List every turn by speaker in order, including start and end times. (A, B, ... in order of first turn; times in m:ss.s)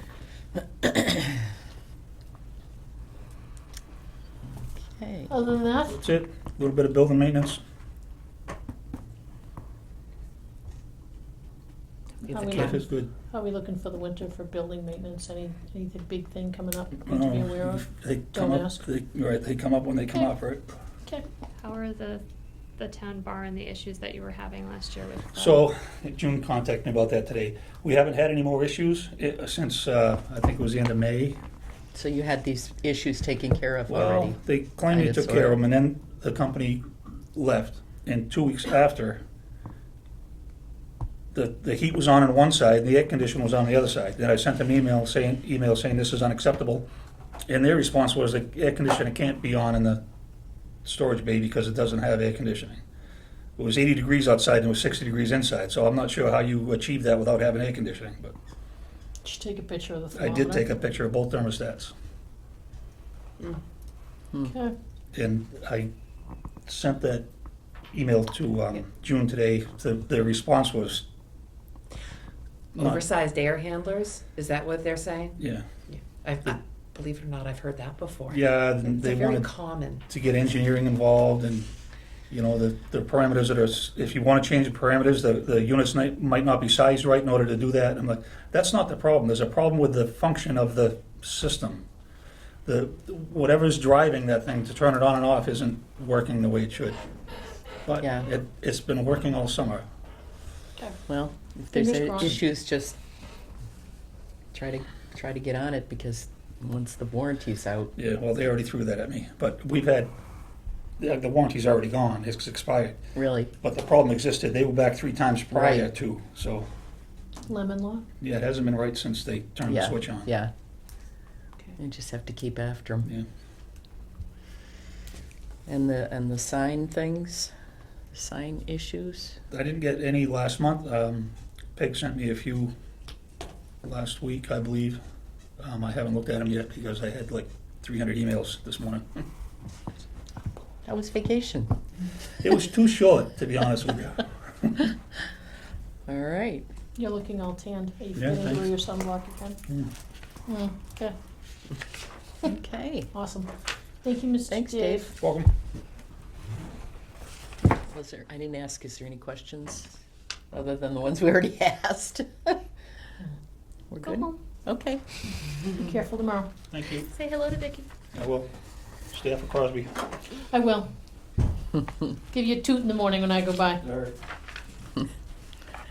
0:04.4-0:05.3 A
0:05.3-0:06.0 B
0:05.9-0:07.6 C
0:12.3-0:18.8 B
0:12.5-0:13.1 C
0:17.1-0:20.8 C
0:21.6-0:22.2 D
0:22.8-0:25.6 D
0:25.3-0:31.4 C
0:31.9-0:35.6 A
0:33.9-0:39.2 C
0:41.3-0:46.9 C
0:47.5-0:50.0 C
0:50.8-0:52.8 C
0:53.6-0:58.4 C
0:59.2-1:00.6 B
1:00.2-1:01.9 C
1:04.4-1:04.8 B
1:05.1-1:05.9 C
1:06.7-1:07.3 C
1:07.9-1:11.0 C
1:12.8-1:13.0 C
1:12.8-1:15.4 E
1:15.4-1:15.6 C
1:15.9-1:20.0 E
1:18.3-1:19.5 C
1:20.1-1:21.7 C
1:22.3-1:31.8 C
1:32.7-1:37.0 C
1:37.9-1:39.9 C
1:38.0-1:38.3 A
1:41.1-1:43.0 A
1:41.7-1:42.4 B
1:44.5-1:47.9 A
1:48.0-1:50.1 C
1:51.0-1:53.0 C
1:53.2-1:53.5 A
1:53.6-1:56.7 C
1:55.5-1:55.9 A
1:57.5-1:58.0 B
1:58.2-2:00.3 C
1:59.7-2:00.5 A
2:01.8-2:03.1 A
2:05.7-2:07.5 A
2:08.1-2:09.4 A
2:09.5-2:12.7 C
2:13.8-2:15.0 C
2:15.6-2:19.2 C
2:20.8-2:21.7 A
2:22.4-2:24.7 C
2:26.1-2:26.7 A
2:27.0-2:29.6 B
2:28.2-2:28.7 C
2:30.5-2:31.2 B
2:32.4-2:33.1 A
2:33.1-2:33.5 B
2:34.0-2:35.2 B
2:34.5-2:35.2 A
2:35.2-2:35.5 C
2:37.8-2:39.9 A
2:40.5-2:42.6 A
2:43.9-2:45.0 A
2:44.0-2:44.4 D
2:45.7-2:46.5 B
2:46.7-2:47.1 C
2:46.9-2:47.9 D
2:48.1-2:48.5 C
2:49.1-2:50.1 C
2:50.5-2:50.9 B
2:52.3-2:53.9 B
2:53.8-2:54.1 C